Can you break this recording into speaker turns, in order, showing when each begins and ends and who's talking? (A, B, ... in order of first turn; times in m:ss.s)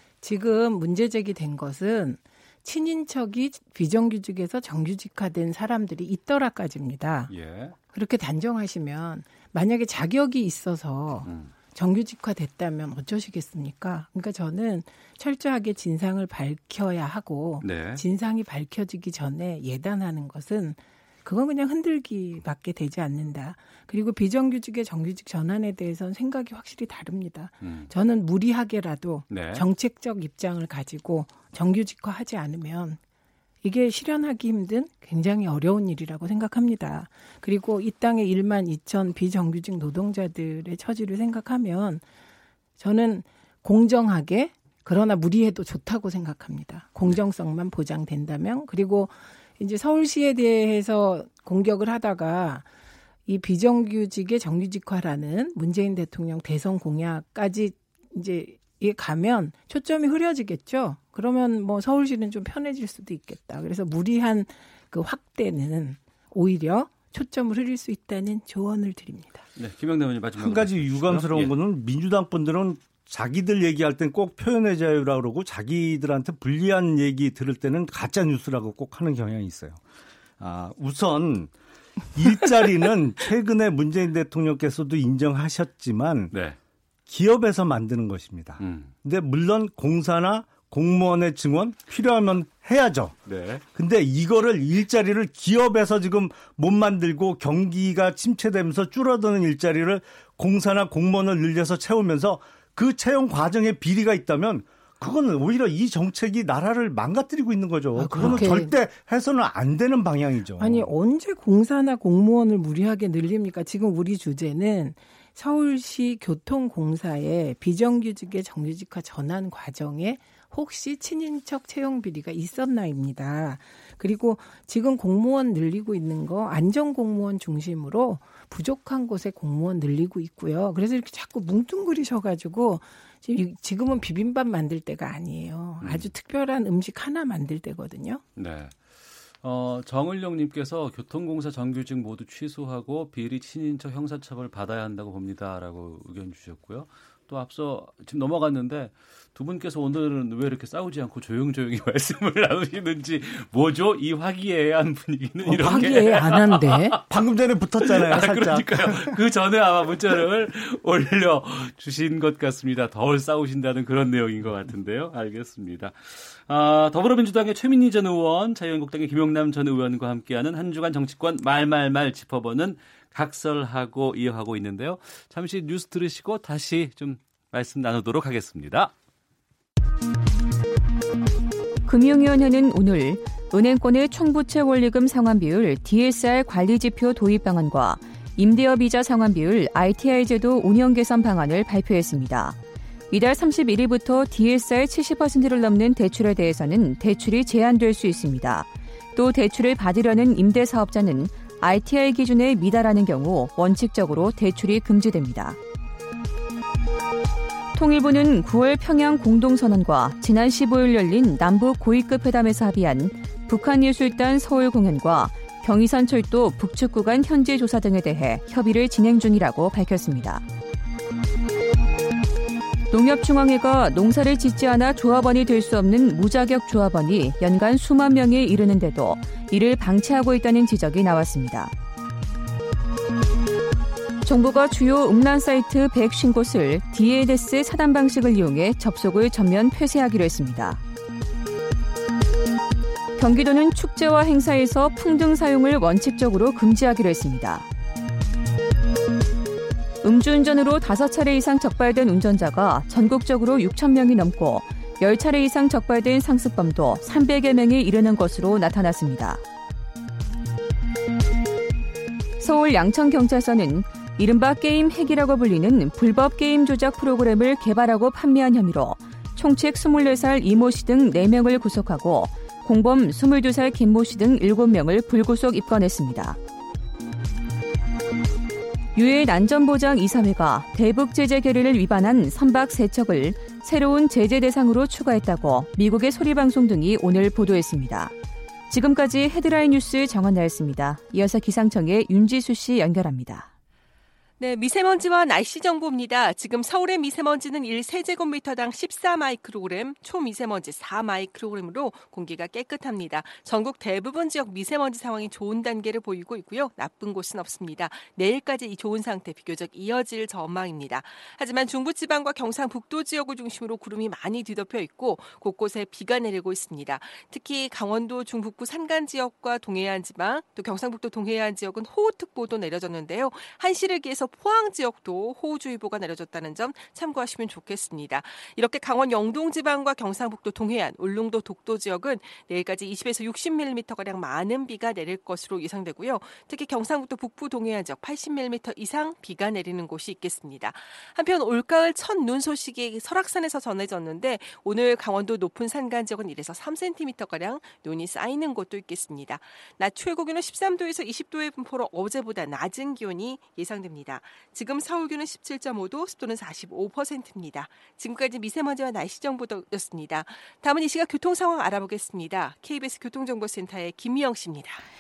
0:00.2-0:07.3 A
0:07.3-0:07.8 B
0:07.9-0:33.0 A
0:11.2-0:11.6 B
0:17.6-0:18.0 B
0:27.6-0:27.9 B
0:29.3-0:29.7 B
0:33.6-0:42.0 A
0:42.8-0:52.7 A
0:53.3-1:09.5 A
1:09.6-1:11.6 B
1:10.4-1:19.8 C
1:20.4-1:21.5 C
1:22.1-1:26.3 C
1:26.3-1:26.6 B
1:27.1-1:33.2 C
1:28.6-1:28.9 B
1:33.3-1:33.6 B
1:33.7-1:50.9 C
1:47.9-1:48.8 A
1:50.6-2:18.2 A
2:15.8-2:16.1 B
2:18.4-2:18.8 B
2:19.4-2:37.0 B
2:35.4-2:37.0 A
2:37.1-2:39.2 C
2:37.8-2:58.9 B
3:01.9-3:12.6 D
3:13.1-3:25.6 D
3:27.7-3:40.4 D
3:42.9-3:51.7 D
3:54.2-4:00.8 D
4:03.2-4:07.7 D
4:10.0-4:19.4 D
4:22.4-4:36.4 D
4:38.9-4:48.1 D
4:48.7-4:53.5 D
4:54.4-6:04.8 E